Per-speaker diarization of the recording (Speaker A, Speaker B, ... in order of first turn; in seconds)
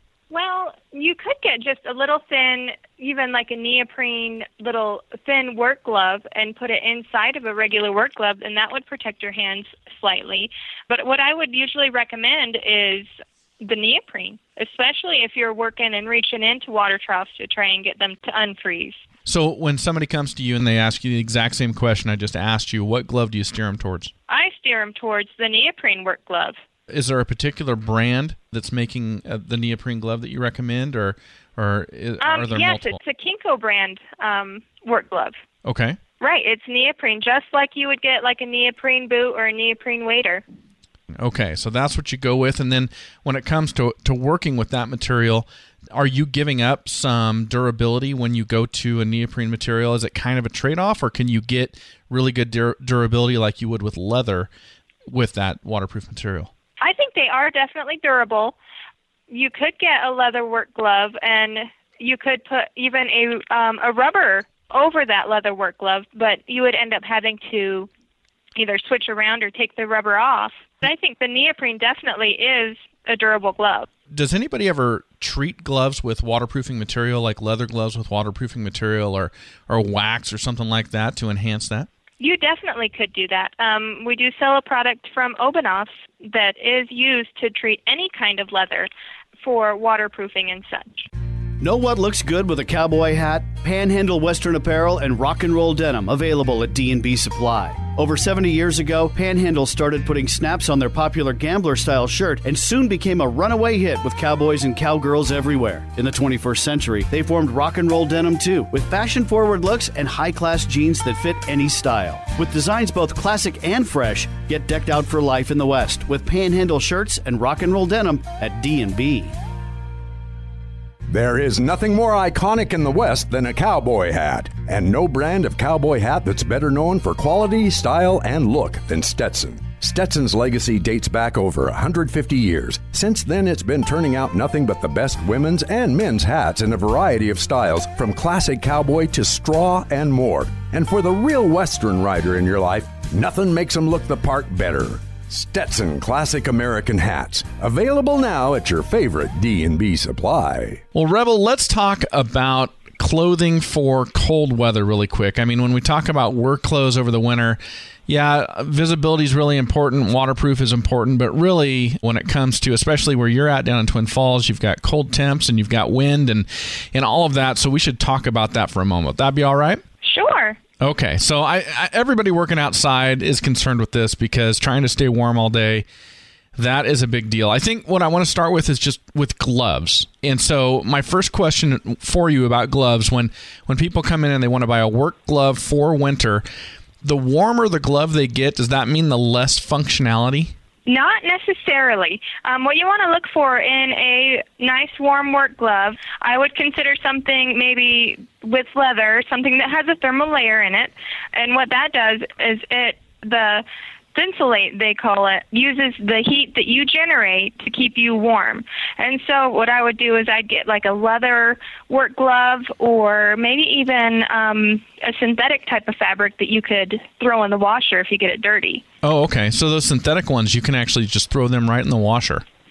Speaker A: 0.3-13.1, 13.6-19.0, 24.3-26.6, 32.2-35.4, 36.2-40.4, 56.8-58.5, 59.3-67.9, 68.5-73.9, 82.2-88.9, 89.4-91.1, 170.0-170.6, 190.9-203.6, 204.1-218.8
Speaker B: 19.2-24.1, 26.9-33.0, 35.6-36.0, 41.1-54.5, 55.1-56.5, 74.1-81.9, 150.9-169.8, 170.8-175.9, 176.6-186.4, 187.0-190.5, 219.0-222.4
Speaker C: 91.6-119.3
Speaker D: 121.1-150.8